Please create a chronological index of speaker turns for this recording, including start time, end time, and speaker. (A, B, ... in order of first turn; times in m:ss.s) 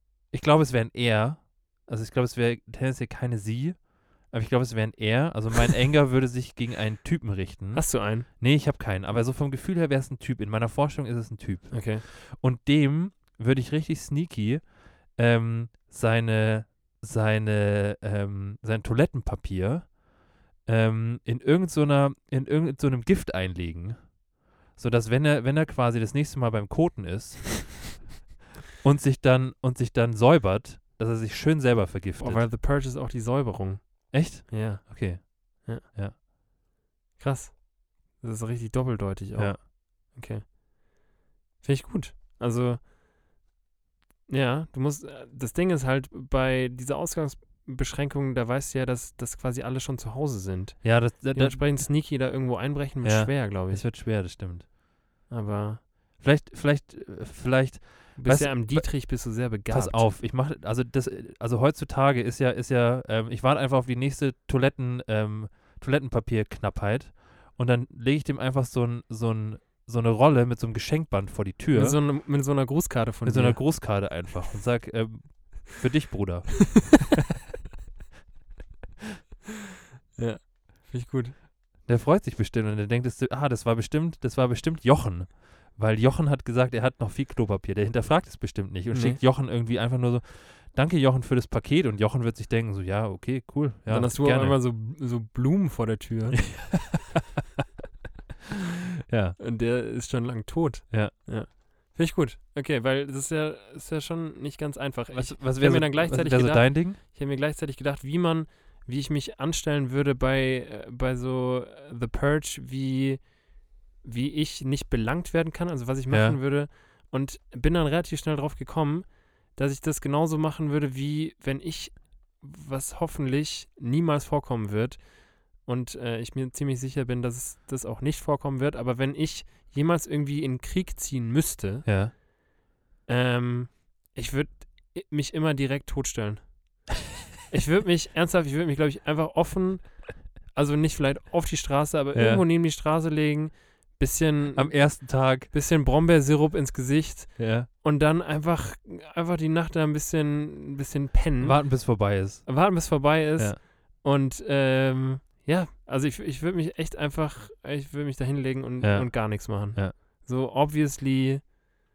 0:00.3-0:20.0 A
0:07.7-0:08.3 B
0:11.7-0:12.0 B
0:20.6-0:24.2 A
0:24.7-0:27.8 A
0:28.8-0:32.5 A
0:32.2-0:35.9 B
0:34.1-0:36.2 A
0:37.2-0:40.6 B
0:39.4-0:39.6 A
0:41.6-0:42.8 B
0:44.3-0:53.9 B
0:50.8-0:52.0 A
0:53.0-0:54.7 A
0:55.3-0:55.8 B
0:56.2-1:12.0 A
0:58.2-1:00.1 B
1:11.7-1:13.6 B
1:13.2-1:17.1 A
1:20.2-1:21.4 B
1:21.8-1:34.6 A
1:28.9-1:29.2 B
1:33.9-1:36.8 B
1:36.4-1:37.2 A
1:39.1-1:39.4 A
1:39.4-2:12.2 B
1:40.9-1:41.4 A
1:45.1-1:47.0 A
1:56.1-1:56.4 A
2:11.8-2:12.1 A
2:13.1-2:16.9 B
2:17.5-2:41.7 B
2:22.1-2:22.4 A
2:24.6-2:25.5 A
2:27.4-2:27.7 A
2:31.4-2:33.6 A
2:38.8-2:40.0 A